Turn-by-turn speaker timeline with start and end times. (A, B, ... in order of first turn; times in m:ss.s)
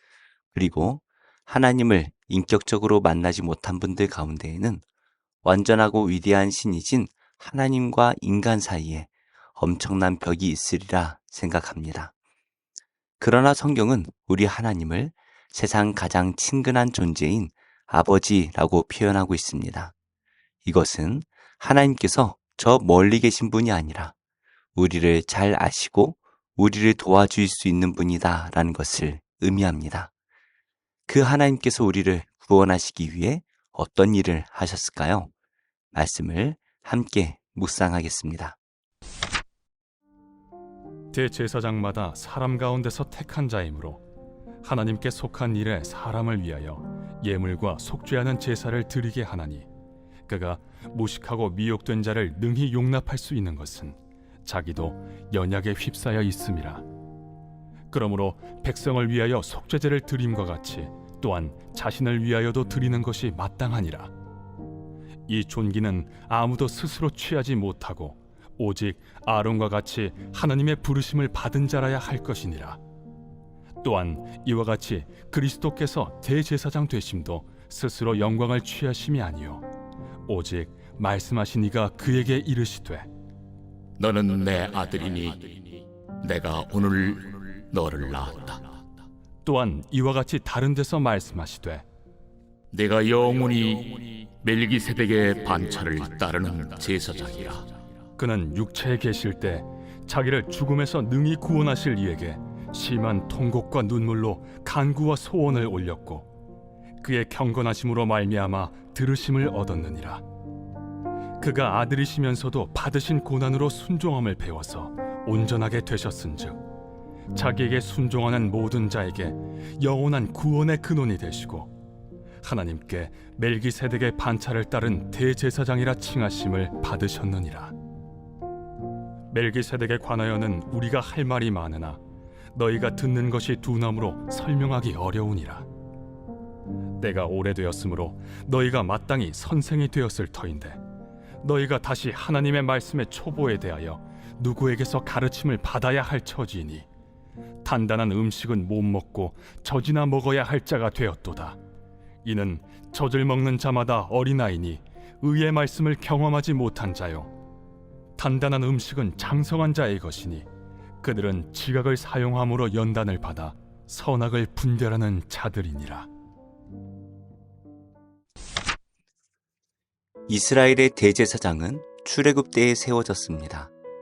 0:00.5-0:04.8 A
0:05.4-0:12.1 A
0:13.2-0:19.9 A
0:20.6-0:24.1 A
0:24.8-0:30.1 A
0:31.1-0:35.3 A
0:35.9-0:38.6 A
0:41.1-0:44.0 B
0:44.6-0:49.7 B
0:50.3-0:56.8 B
0:57.9-1:04.1 B
1:05.3-1:12.8 B
1:13.8-1:19.6 B
1:20.3-1:23.1 B
1:24.0-1:28.6 C
1:29.4-1:31.8 B
1:32.7-1:37.7 C
1:38.2-1:46.3 B
1:47.0-1:50.2 B
1:51.4-1:56.6 B
1:57.3-2:01.7 B
2:02.4-2:07.7 B
2:09.3-2:12.0 B
2:12.5-2:15.7 B
2:17.0-2:20.8 B
2:21.4-2:26.9 B
2:27.6-2:31.6 B
2:32.2-2:37.3 B
2:38.2-2:40.5 B
2:41.0-2:46.1 B
2:50.3-2:53.7 A